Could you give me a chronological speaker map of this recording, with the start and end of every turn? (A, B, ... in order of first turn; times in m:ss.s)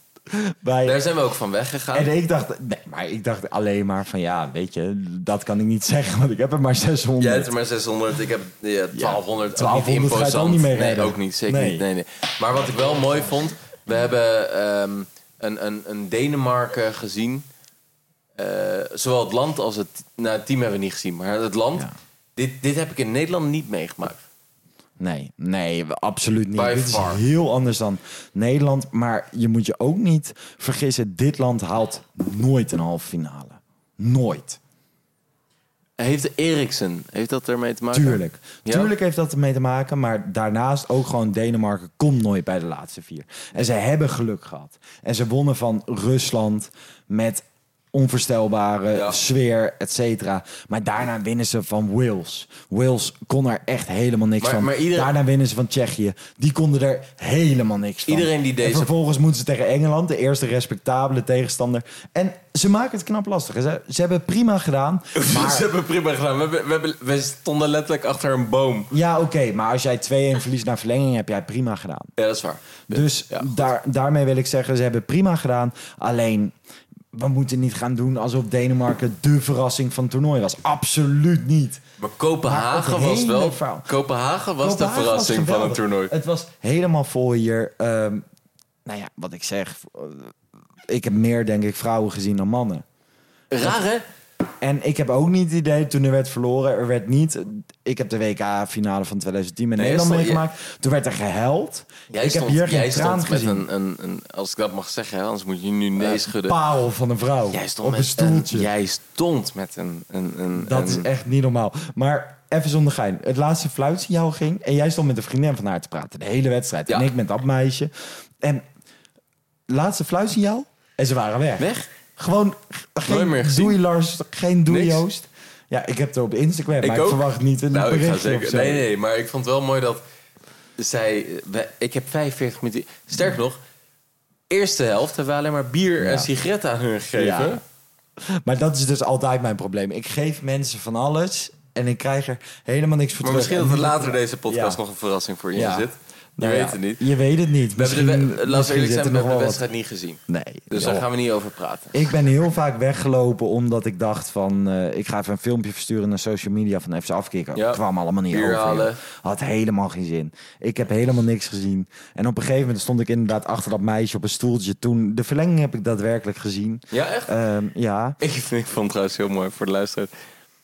0:00.3-0:01.0 A
0:00.8-0:02.1 B
0:01.9-0:07.5 A
0:07.2-0:17.4 B
0:08.9-0:11.8 A
0:18.4-0:24.2 B
0:25.0-0:34.6 A
0:26.6-0:27.2 B
0:36.0-0:38.9 B
0:37.9-1:05.7 A
0:54.4-0:55.1 B
0:58.1-0:58.9 B
1:05.2-1:08.9 B
1:08.9-1:12.1 A
1:12.2-1:13.6 B
1:12.9-1:16.5 A
1:17.1-1:21.8 A
1:22.0-1:26.1 B
1:22.4-1:23.9 A
1:24.6-1:28.2 A
1:28.8-1:30.3 A
1:30.9-1:32.8 A
1:33.5-1:34.0 B
1:34.6-1:43.6 A
1:39.8-1:40.4 B
1:42.1-1:46.6 B
1:46.0-1:48.7 A
1:47.5-1:51.1 B
1:50.5-1:58.6 A
1:59.7-2:08.8 A
2:01.6-2:01.9 B
2:03.0-2:03.8 B
2:04.7-2:05.0 B
2:06.8-2:10.0 B
2:10.8-2:13.6 B
2:14.5-2:17.6 B
2:16.0-2:16.3 A
2:17.2-2:17.6 A
2:18.2-2:24.8 A
2:23.2-2:27.0 B
2:25.5-2:29.6 A
2:27.7-2:32.0 B
2:30.3-2:31.0 A
2:31.9-2:48.2 A
2:37.5-2:39.0 B
2:46.9-2:47.3 B
2:48.2-2:50.1 B